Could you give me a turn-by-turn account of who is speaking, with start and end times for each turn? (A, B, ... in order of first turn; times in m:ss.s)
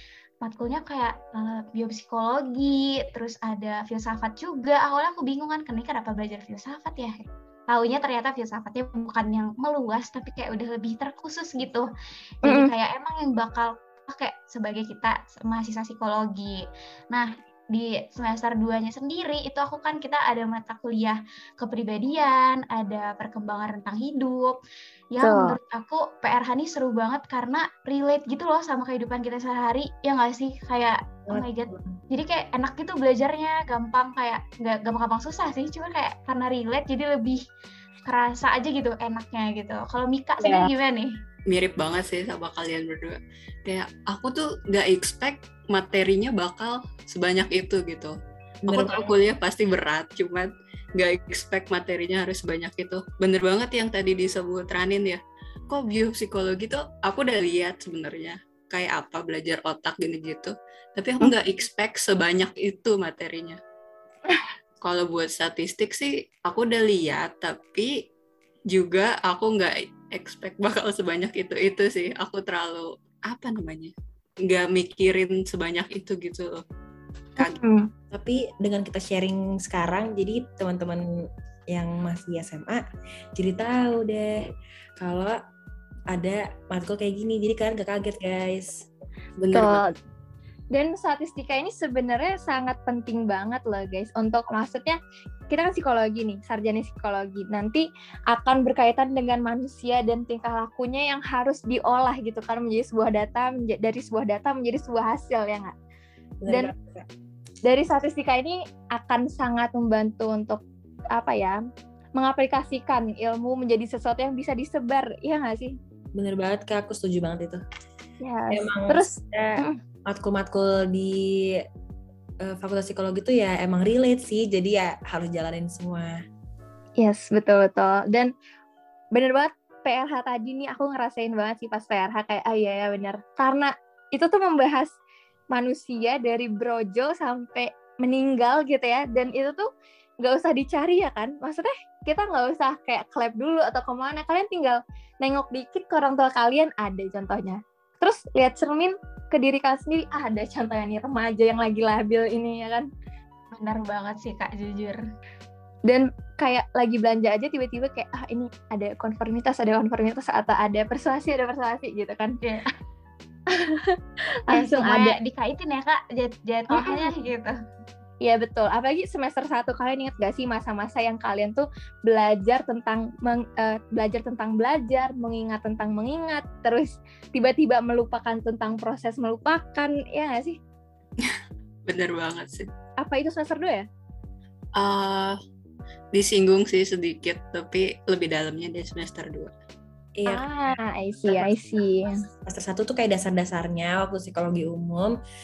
0:00.4-0:07.2 A
0:07.7-0:11.9 A
0:12.4-0:24.6 A
0:12.4-0:12.7 B
0:25.1-0:37.4 A
0:25.2-0:25.6 B
0:31.3-0:32.0 C
0:38.0-0:41.1 A
0:40.4-0:40.7 B
0:41.5-0:48.1 D
0:48.6-0:49.1 C
0:48.7-1:03.6 D
1:04.8-1:07.9 D
1:08.7-1:16.6 D
1:17.4-1:17.9 B
1:18.1-1:21.0 C
1:21.7-1:22.8 C
1:23.4-1:24.4 C
1:25.0-1:25.4 C
1:26.1-1:28.9 C
1:29.4-1:29.8 D
1:29.5-1:29.9 B
1:30.7-1:35.0 B
1:35.5-1:45.7 B
1:46.4-1:47.1 C
1:47.6-1:50.6 B
1:51.1-1:51.6 B
1:52.2-1:55.8 B
1:56.1-1:57.6 C
1:58.2-1:59.8 B
1:58.5-2:01.6 C
2:02.4-2:06.2 C
2:07.0-2:08.3 B
2:09.1-2:14.9 B
2:15.5-2:19.7 B
2:20.2-2:32.9 B
2:33.5-2:35.0 A
2:35.9-2:42.4 B
2:42.4-2:42.7 A
2:43.5-2:45.2 B
2:44.5-2:47.5 A
2:46.7-2:47.1 B
2:48.2-3:00.6 B
3:01.2-3:02.7 D
3:03.0-3:03.9 B
3:04.8-3:05.4 D
3:06.1-3:09.5 D
3:10.2-3:10.5 C
3:10.3-3:12.2 B
3:12.4-3:15.2 C